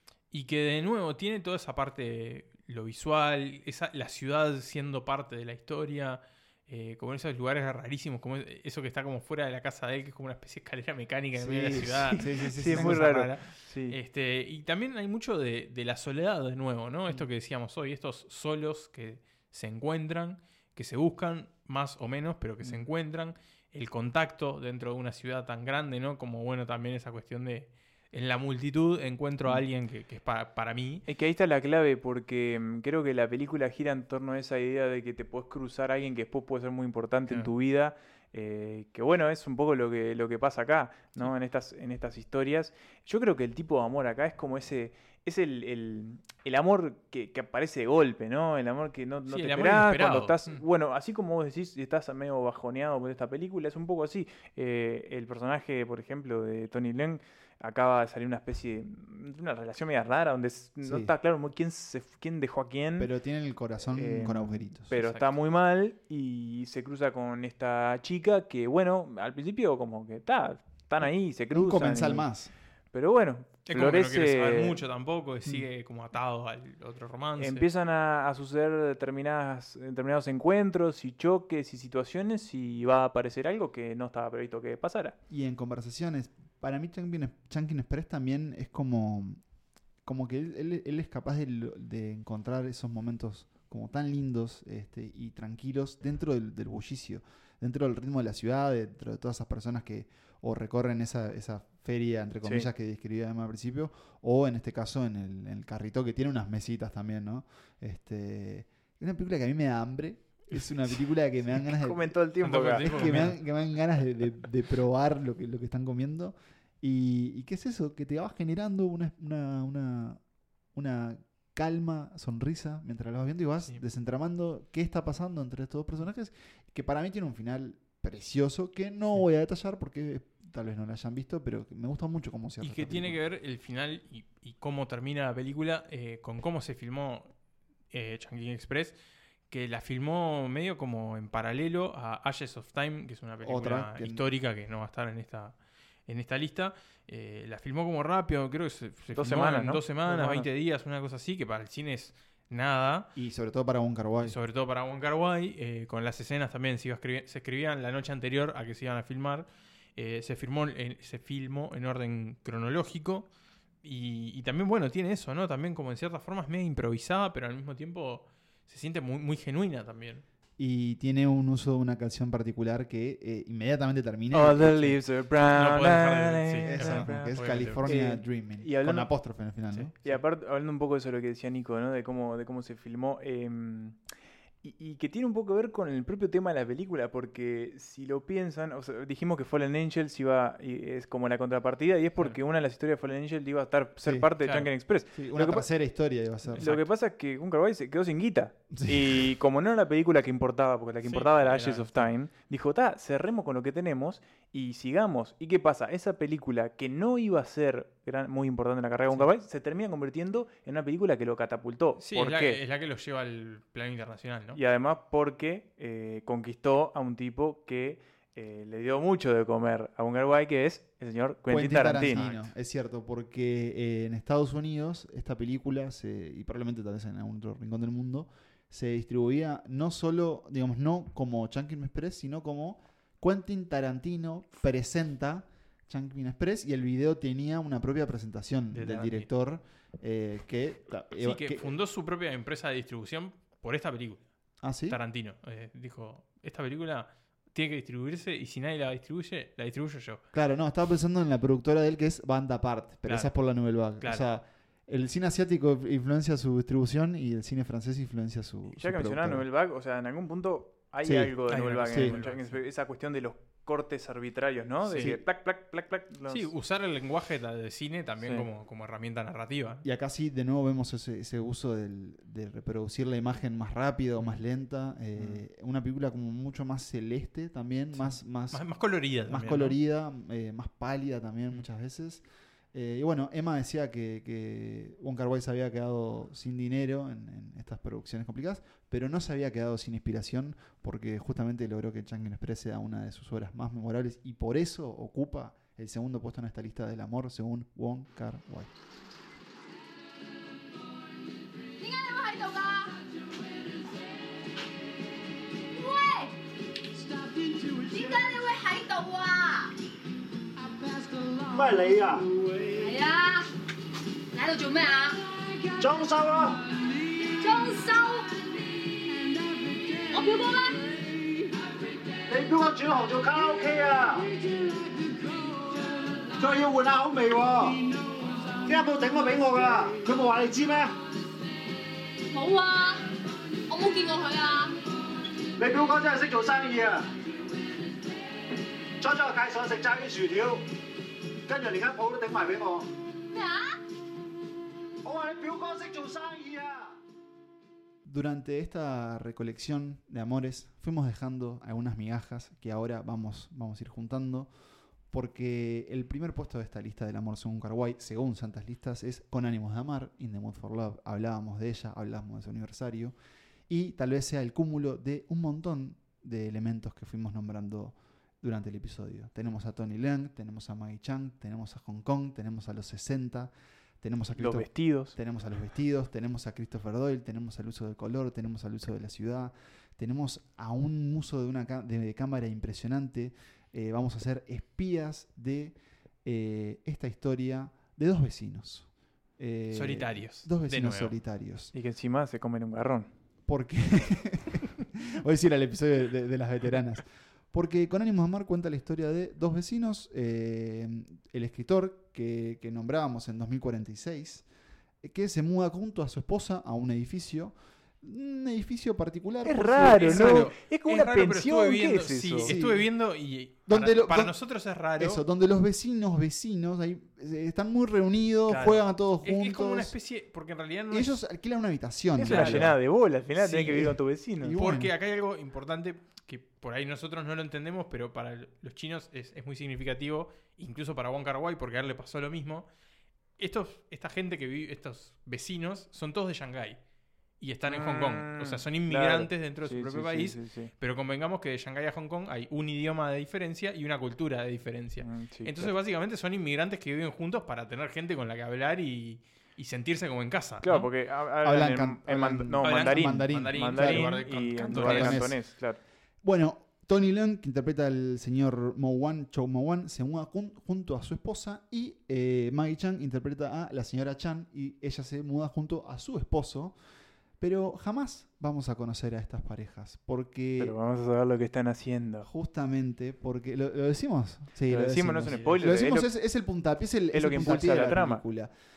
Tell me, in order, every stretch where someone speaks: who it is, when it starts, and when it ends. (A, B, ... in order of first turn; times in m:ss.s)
0:00.3-0:31.0 A
0:11.3-0:13.0 B
0:11.9-0:14.0 C
0:31.1-1:03.1 C
0:49.3-0:50.6 A
1:00.8-1:01.1 B
1:03.0-1:04.9 B
1:03.9-1:12.3 C
1:04.9-1:05.3 A
1:11.0-1:12.5 B
1:12.9-1:14.8 C
1:13.7-1:17.7 A
1:17.4-1:25.2 C
1:25.3-1:29.4 B
1:30.0-2:00.2 B
1:42.4-1:42.7 C
1:51.6-1:53.3 C
1:52.4-1:53.4 A
2:00.7-2:13.2 B
2:12.6-2:17.3 A
2:17.9-2:19.0 A
2:19.5-2:33.1 A
2:23.4-2:24.3 B
2:29.1-2:30.5 C
2:33.1-2:34.4 B
2:34.2-2:43.3 A
2:43.8-2:50.2 A
2:50.6-2:55.0 B
2:54.3-2:59.1 C
2:55.5-2:57.8 A
2:56.7-2:59.9 B
2:59.7-3:00.2 A
3:00.0-3:04.0 C
3:04.6-3:15.7 C
3:14.4-3:14.7 A
3:15.1-3:16.7 B
3:16.6-3:16.8 A
3:16.6-3:32.6 C
3:18.7-3:19.3 B
3:21.1-3:22.1 A
3:32.0-3:34.6 A
3:34.5-3:42.2 C
3:41.5-4:01.7 B
3:42.1-3:42.5 A
3:58.7-3:59.3 A
4:01.2-4:04.2 A
4:04.6-4:05.0 B
4:04.9-4:10.2 A
4:10.3-4:19.4 B
4:13.0-4:13.3 A
4:14.0-4:14.2 A
4:18.7-4:26.5 C
4:21.0-4:21.3 B
4:21.5-4:22.6 A
4:21.9-4:22.2 B
4:24.9-4:25.2 A
4:24.9-4:25.2 B
4:26.3-4:29.8 A
4:29.8-4:38.7 B
4:37.9-4:39.8 A
4:39.2-4:58.7 B
5:01.8-5:03.0 D
5:05.7-5:06.4 D
5:07.9-5:09.7 D
5:11.4-5:12.7 E
5:12.8-5:13.5 D
5:14.3-5:15.2 D
5:15.8-5:16.6 E
5:17.4-5:18.4 D
5:20.1-5:20.9 D
5:22.3-5:24.3 E
5:26.4-5:27.8 E
5:28.6-5:30.9 E
5:32.3-5:33.1 D
5:33.7-5:34.7 D
5:35.6-5:37.1 E
5:39.0-5:40.6 E
5:41.5-5:42.9 E
5:43.3-5:43.8 D
5:45.0-5:46.9 E
5:48.0-5:54.5 B
5:55.1-6:03.2 B
6:03.7-6:31.7 B
6:14.3-6:15.1 C
6:29.7-6:31.1 A
6:31.7-6:33.1 C
6:33.5-6:44.4 B
6:45.0-6:50.5 B
6:49.4-6:52.5 C
6:49.9-6:55.2 A
6:52.4-6:52.9 B
6:53.7-6:59.9 B
6:58.5-7:01.2 A
7:00.9-7:02.8 B
7:02.2-7:04.6 C
7:02.2-7:02.7 A
7:03.4-7:03.9 A
7:03.8-7:04.9 B
7:04.6-7:12.7 A
7:13.4-7:16.8 A
7:17.4-7:30.9 A
7:17.7-7:20.7 C
7:25.0-7:25.7 C
7:30.6-7:35.8 C
7:31.4-7:35.5 B
7:32.6-7:35.3 A
7:36.2-7:46.8 B
7:47.4-7:50.8 B
7:50.6-7:52.3 C
7:52.2-7:58.5 B
7:54.7-7:56.1 C
7:55.2-7:55.6 A
7:57.1-7:58.2 C